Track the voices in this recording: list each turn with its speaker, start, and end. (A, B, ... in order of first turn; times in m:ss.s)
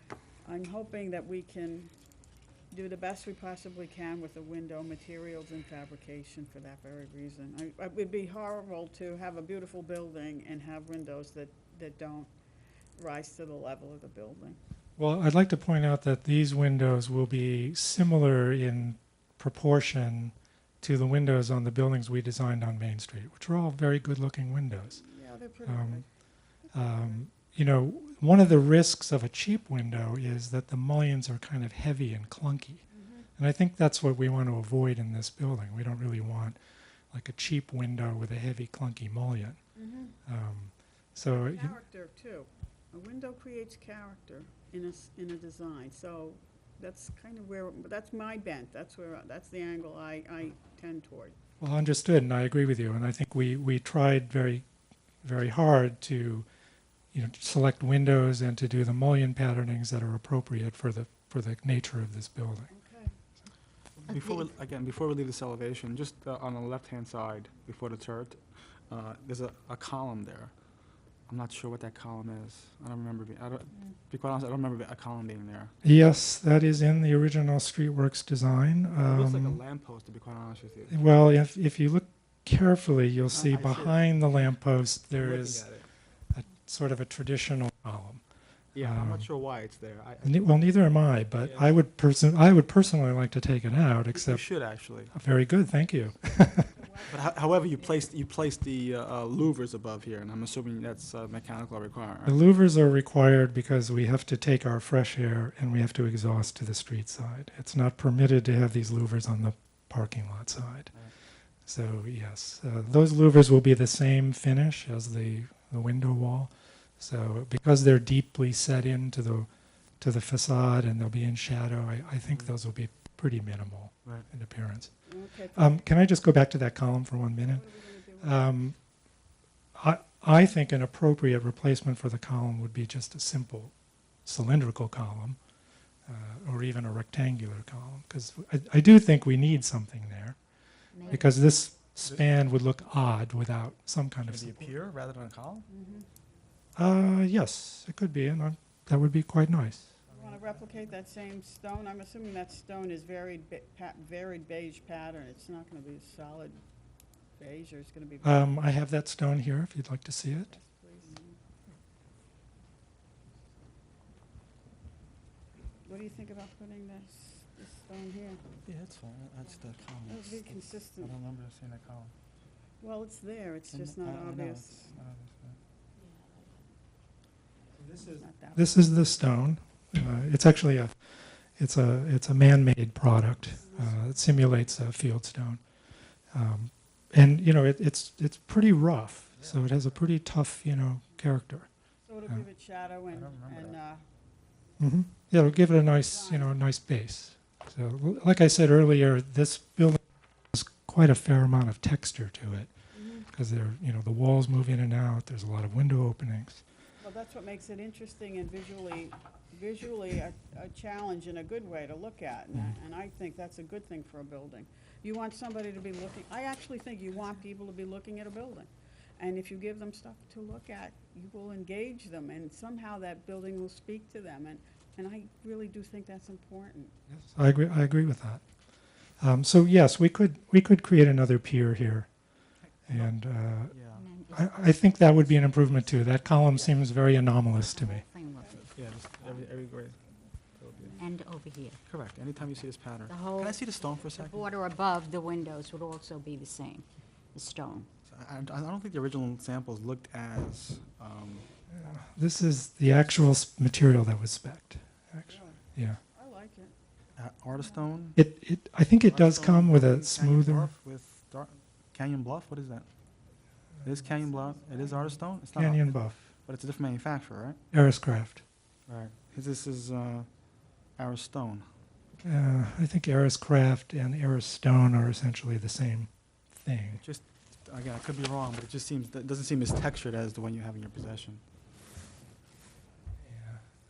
0:00.4-0:01.9 A
0:02.7-0:12.3 A
0:13.0-0:14.6 A
0:15.0-0:25.0 B
0:24.9-0:26.1 A
0:25.6-0:26.0 B
0:26.6-0:27.2 A
0:26.7-0:32.8 B
0:32.9-0:33.3 A
0:33.4-0:36.6 B
0:37.1-0:39.6 B
0:39.8-0:40.2 A
0:40.2-0:41.8 B
0:41.3-0:51.4 A
0:51.6-0:54.6 B
0:55.2-0:56.5 B
0:57.1-1:02.7 B
1:02.7-1:03.1 A
1:04.0-1:10.5 C
1:04.1-1:04.4 D
1:11.3-1:15.7 C
1:15.8-1:19.6 B
1:19.0-1:21.0 C
1:20.9-1:25.7 B
1:23.3-1:24.0 C
1:25.1-1:25.8 C
1:26.3-1:28.2 B
1:28.7-1:30.6 C
1:28.8-1:29.3 B
1:30.2-1:34.5 B
1:31.4-1:31.8 C
1:34.1-1:35.1 C
1:35.1-1:36.7 B
1:36.3-1:38.1 A
1:37.1-1:42.4 C
1:42.2-1:51.0 B
1:51.6-1:59.5 B
2:00.0-2:07.7 B
2:02.2-2:02.5 C
2:05.0-2:05.8 A
2:07.4-2:08.5 A
2:08.2-2:08.8 B
2:09.8-2:15.4 B
2:16.1-2:20.4 B
2:20.9-2:21.4 D
2:21.0-2:24.7 B
2:24.2-2:25.7 C
2:25.7-2:26.0 A
2:26.8-2:29.9 B
2:30.1-2:30.5 C
2:30.1-2:36.6 A
2:37.4-2:38.6 A
2:38.2-2:40.5 B
2:40.5-2:41.2 A
2:45.8-2:48.4 A
2:48.6-2:52.1 C
2:50.0-2:51.1 A
2:52.8-2:55.0 A
2:53.7-2:55.6 C
2:56.0-2:56.5 D
2:57.8-3:05.6 B
2:58.0-2:59.0 A
3:03.6-3:04.0 A
3:06.3-3:11.7 B
3:09.3-3:10.0 C
3:12.0-3:14.0 A
3:13.1-3:13.8 C
3:14.8-3:20.0 B
3:15.9-3:16.6 A
3:20.5-3:22.7 B
3:22.9-3:23.3 A
3:23.2-3:26.6 B
3:27.0-3:46.9 A
3:47.1-3:48.5 B
3:49.2-3:52.1 B
3:52.8-3:53.1 C
3:52.9-3:53.8 B
3:53.7-3:54.1 C
3:53.9-3:56.8 D
3:54.3-3:58.0 B
3:57.6-3:59.4 D
3:58.7-4:00.0 C
4:00.5-4:01.0 C
4:01.0-4:01.8 D
4:01.8-4:04.4 C
4:03.1-4:03.6 D
4:04.1-4:07.9 D
4:08.1-4:11.4 C
4:11.7-4:16.0 B
4:15.2-4:16.7 A
4:17.2-4:18.2 C
4:18.2-4:20.7 B
4:19.0-4:22.9 C
4:23.8-4:27.6 C
4:24.0-4:25.2 A
4:25.5-4:26.2 B
4:27.7-4:28.4 B
4:28.9-4:30.3 C
4:31.0-4:31.6 C
4:32.2-4:37.0 B
4:36.9-4:41.4 C
4:43.2-4:43.6 B